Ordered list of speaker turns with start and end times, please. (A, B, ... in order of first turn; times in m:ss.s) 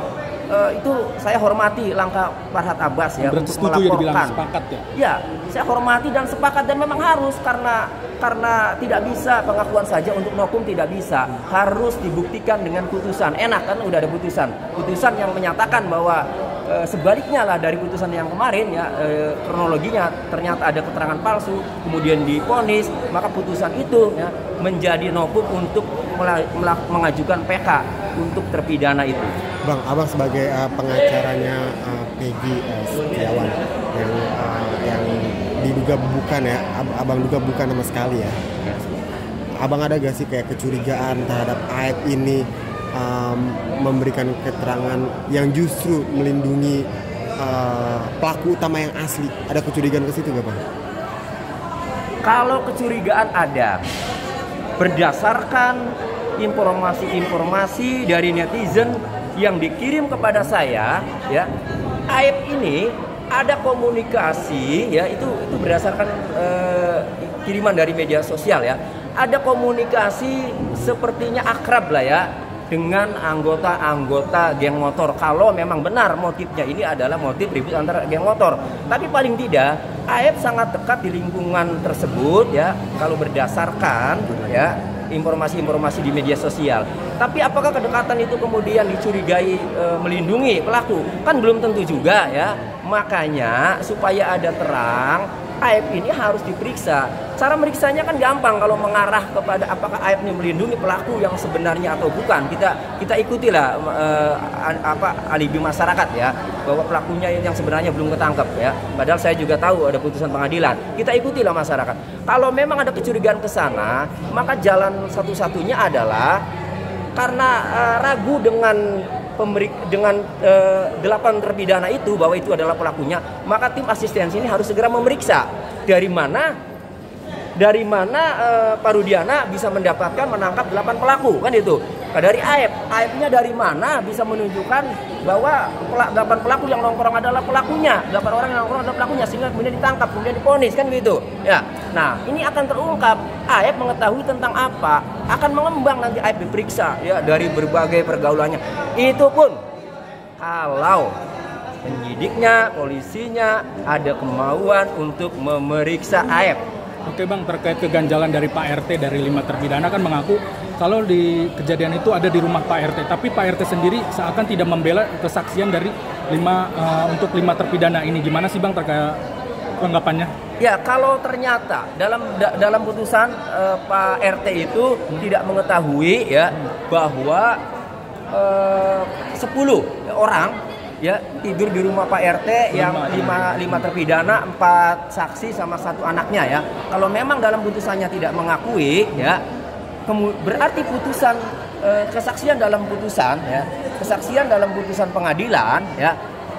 0:00.5-0:04.4 A
0:03.2-0:04.8 B
0:05.0-0:29.4 A
0:29.6-0:39.0 C
0:39.6-0:46.9 C
0:47.4-0:50.6 C
0:52.2-0:53.9 A
0:54.8-1:01.5 A
1:02.1-1:56.4 A
1:57.2-2:06.6 A
2:07.6-2:29.6 A
2:30.4-2:31.2 A
2:31.8-2:36.6 A
2:37.1-2:49.2 B
2:49.8-2:50.3 B
2:50.6-2:57.6 A
2:58.3-3:09.4 A
3:02.7-3:03.9 B
3:10.1-3:16.2 A